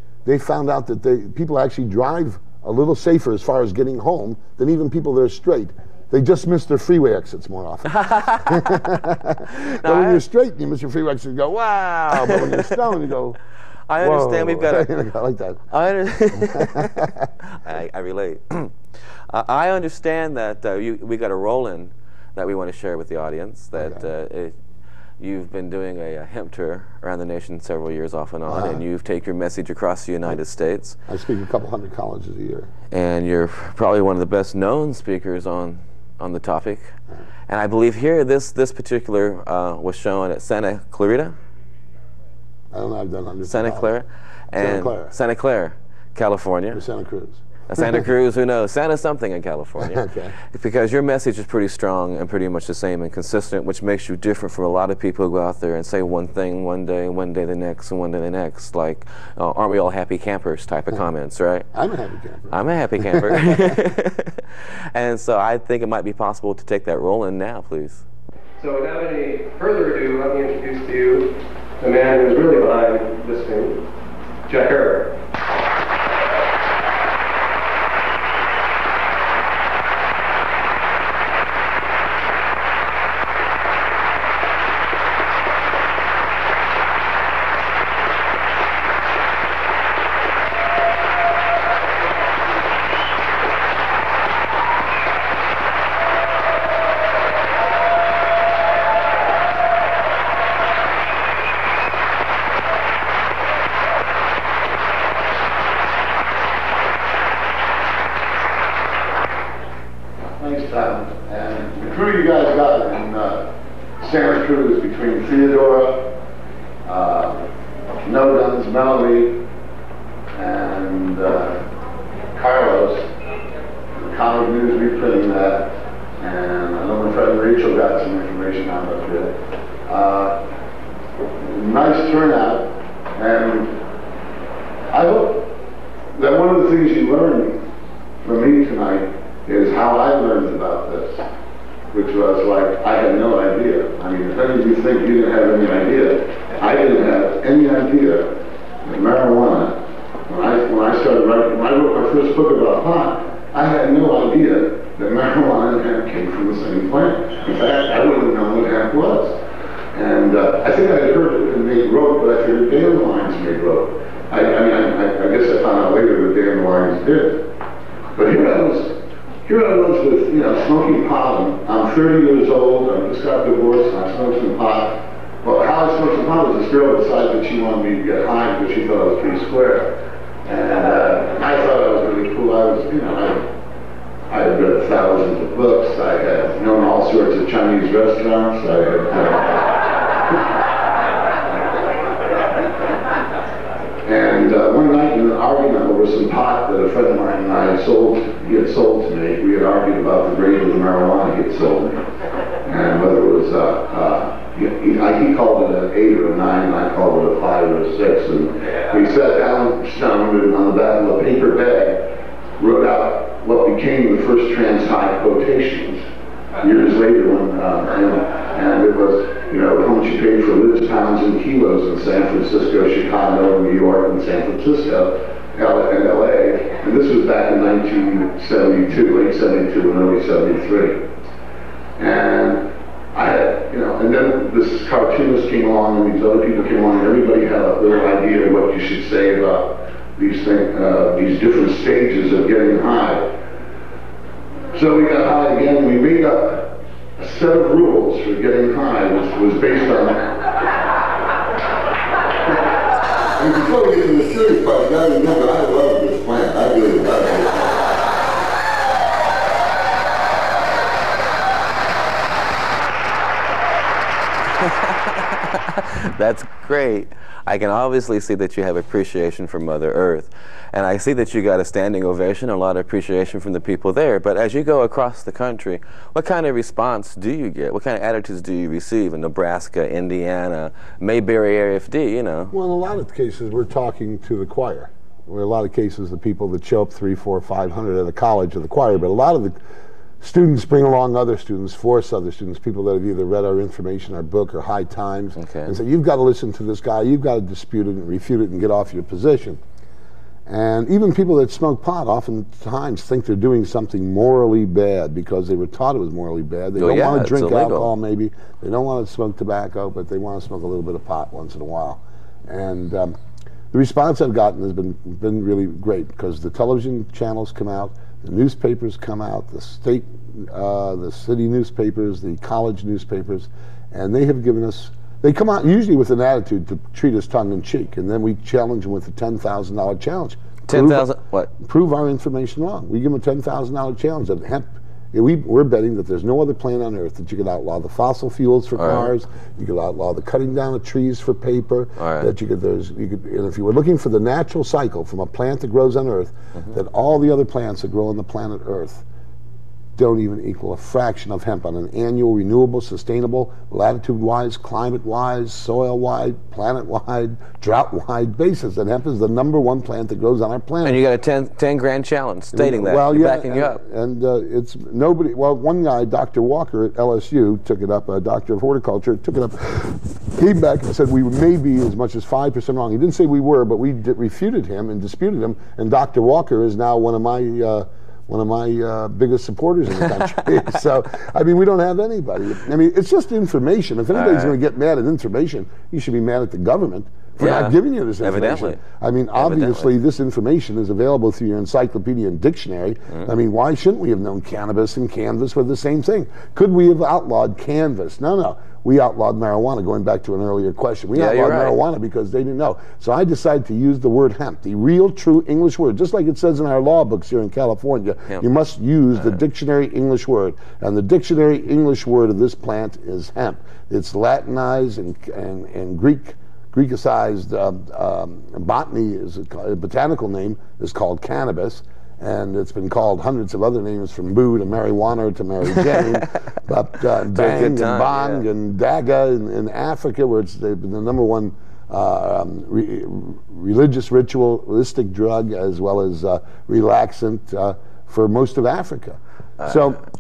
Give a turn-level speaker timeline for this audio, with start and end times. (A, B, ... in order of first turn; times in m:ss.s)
0:00.3-0:13.4 A
0:07.9-0:08.9 B
0:09.5-0:10.2 B
0:12.2-0:12.8 B
0:13.9-0:14.9 B
0:14.0-0:15.6 A
0:15.7-0:24.6 B
0:16.4-0:17.3 A
0:23.8-0:24.0 A
0:25.2-0:31.0 B
0:28.5-0:28.8 A
0:31.1-0:32.7 A
0:32.9-0:36.9 B
0:37.5-0:41.4 B
0:42.7-0:43.9 A
0:43.5-0:46.8 B
0:44.6-0:45.2 A
0:46.7-0:48.0 A
0:47.7-1:01.7 B
0:49.8-0:50.3 A
1:01.7-1:03.7 A
1:02.5-1:08.0 B
1:08.6-1:11.3 C
1:11.8-1:13.8 C
1:14.5-1:15.1 C
1:50.4-1:53.5 A
1:54.0-1:56.1 A
1:56.8-1:57.5 A
1:58.0-1:59.4 A
2:00.3-2:01.6 A
2:02.3-2:03.1 A
2:03.9-2:10.4 A
2:11.4-2:13.8 A
2:14.9-2:15.5 A
2:16.1-2:17.6 A
2:18.2-2:21.3 A
2:21.9-2:39.4 A
2:39.9-2:47.4 A
2:48.2-3:03.5 A
3:04.3-3:09.8 A
3:14.0-3:22.0 A
3:22.6-3:32.1 A
3:32.6-3:36.0 A
3:36.6-3:51.0 A
3:52.0-4:03.3 A
4:04.7-4:10.4 A
4:13.4-4:18.2 A
4:24.6-4:42.5 B
4:42.5-4:49.6 A
4:50.2-4:59.6 A
4:55.4-4:55.8 B
5:00.5-5:13.2 A
5:06.8-5:07.9 B
5:13.7-5:49.0 A
5:30.7-5:31.5 B
5:38.8-5:39.1 B
5:42.0-5:42.3 B
5:50.0-6:01.0 A
6:00.8-6:03.8 B
6:02.5-7:20.0 A
6:24.1-6:24.5 B
6:27.4-6:28.8 B
6:29.4-6:29.9 B
6:41.2-6:41.8 B
7:07.2-7:08.4 B